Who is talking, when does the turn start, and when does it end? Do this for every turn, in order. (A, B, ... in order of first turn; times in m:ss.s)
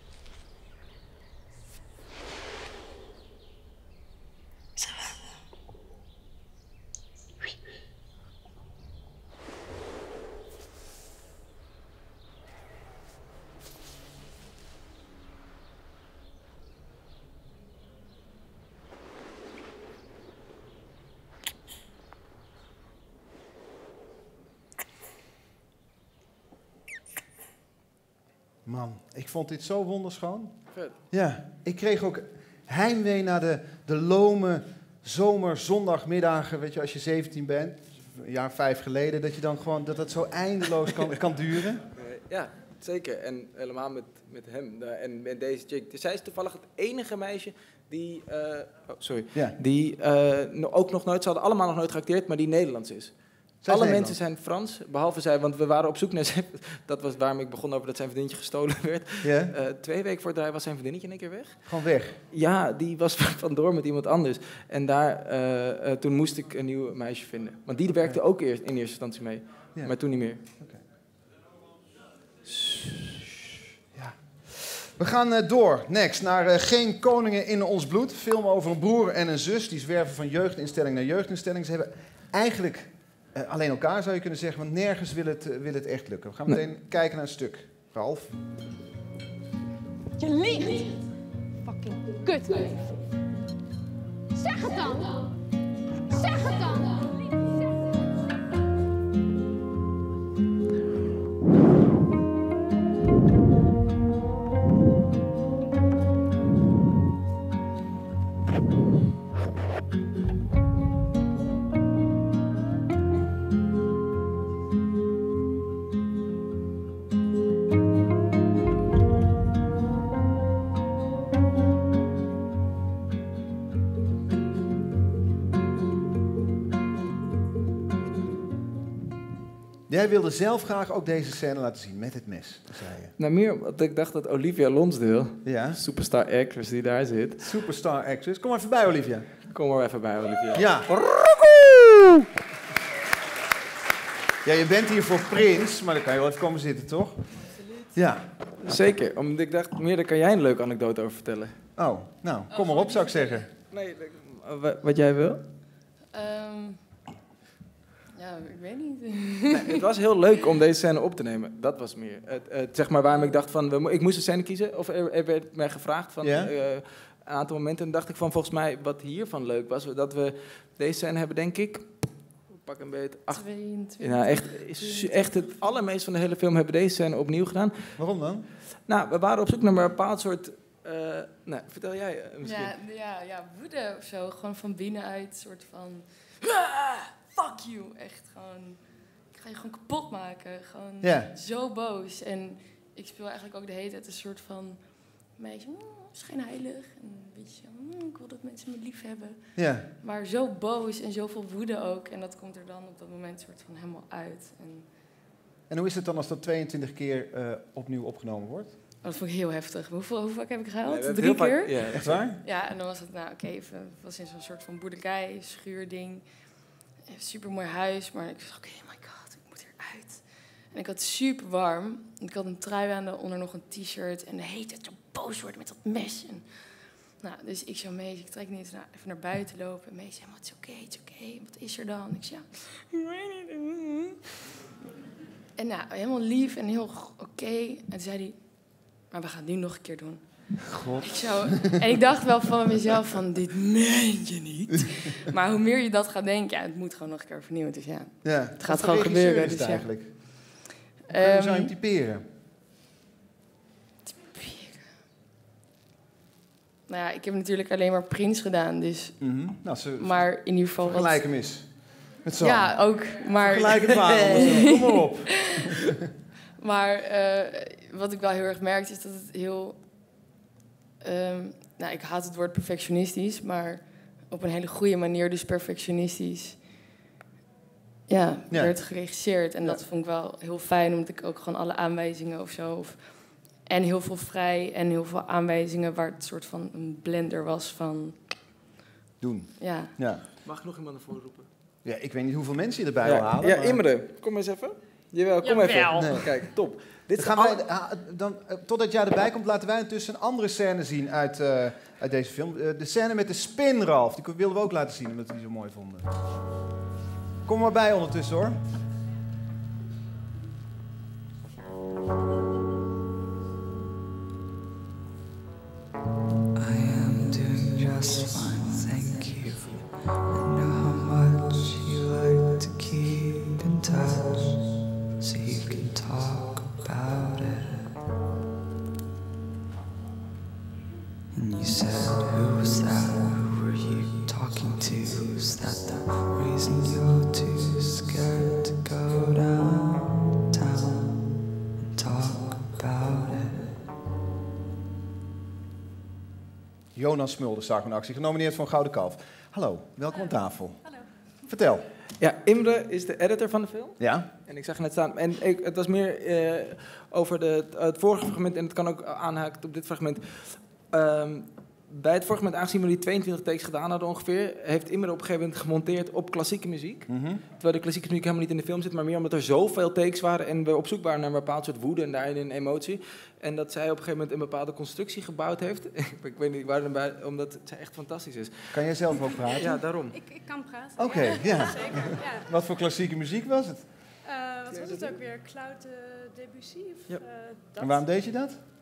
0:28.6-0:30.5 A
0:30.7-0:31.0 B
0:31.1-0:41.8 A
0:41.9-0:53.1 B
0:53.6-0:54.2 A
0:53.6-1:01.8 B
0:59.2-0:59.5 A
1:01.6-1:02.2 A
1:02.3-1:10.4 B
1:13.9-1:28.3 A
1:30.2-1:30.9 C
1:31.7-1:32.8 C
1:34.4-1:35.1 C
1:36.3-1:36.6 C
2:09.9-2:13.1 A
2:13.2-2:17.5 B
2:15.4-2:15.8 A
2:17.4-2:19.2 A
2:19.5-2:21.1 B
2:20.5-2:21.8 A
2:24.4-2:27.2 A
2:27.9-2:28.2 A
2:28.6-2:31.6 B
2:31.8-2:33.5 A
2:32.5-2:33.2 D
2:33.7-2:35.4 B
2:36.1-2:36.8 D
2:38.1-2:39.8 D
2:39.5-2:51.9 B
2:46.2-2:46.5 A
2:52.5-2:57.9 B
2:53.3-2:55.4 D
2:58.0-2:58.4 A
2:58.8-3:02.7 B
3:02.4-3:08.8 D
3:09.3-3:19.4 D
3:11.0-3:11.3 A
3:19.6-3:19.9 A
3:20.0-3:24.9 D
3:25.7-3:28.7 A
3:29.0-3:36.2 D
3:30.8-3:32.3 B
3:31.9-3:32.4 A
3:37.1-3:46.4 D
3:47.2-3:54.1 D
3:55.6-3:58.4 D
3:59.1-4:00.2 D
4:00.6-4:01.9 A
4:01.0-4:09.9 D
4:08.2-4:10.1 A
4:11.1-4:11.7 D
4:11.1-4:12.2 A
4:14.1-4:14.9 D
4:16.9-4:19.2 D
4:19.2-4:26.0 A
4:20.0-4:21.2 D
4:22.4-4:25.7 D
4:26.6-4:29.8 D
4:31.0-4:36.6 D
4:38.1-4:48.2 D
4:49.2-4:50.2 A
4:49.6-4:49.9 D
4:50.4-4:51.5 B
4:51.8-4:53.8 A
4:53.0-4:57.6 B
4:55.9-4:56.3 A
4:57.2-5:06.0 A
5:07.4-5:08.6 A
5:16.6-5:27.9 E
5:31.3-5:43.8 E
5:46.9-5:50.8 A
5:51.5-5:51.8 A
5:52.2-6:18.9 B
5:54.0-5:54.3 A
6:07.1-6:07.4 A
6:18.7-6:19.8 A
6:19.5-6:20.2 B
6:20.1-6:22.5 F
6:21.0-6:23.8 A
6:24.2-6:28.1 F
6:24.7-6:25.1 B
6:27.8-6:28.6 A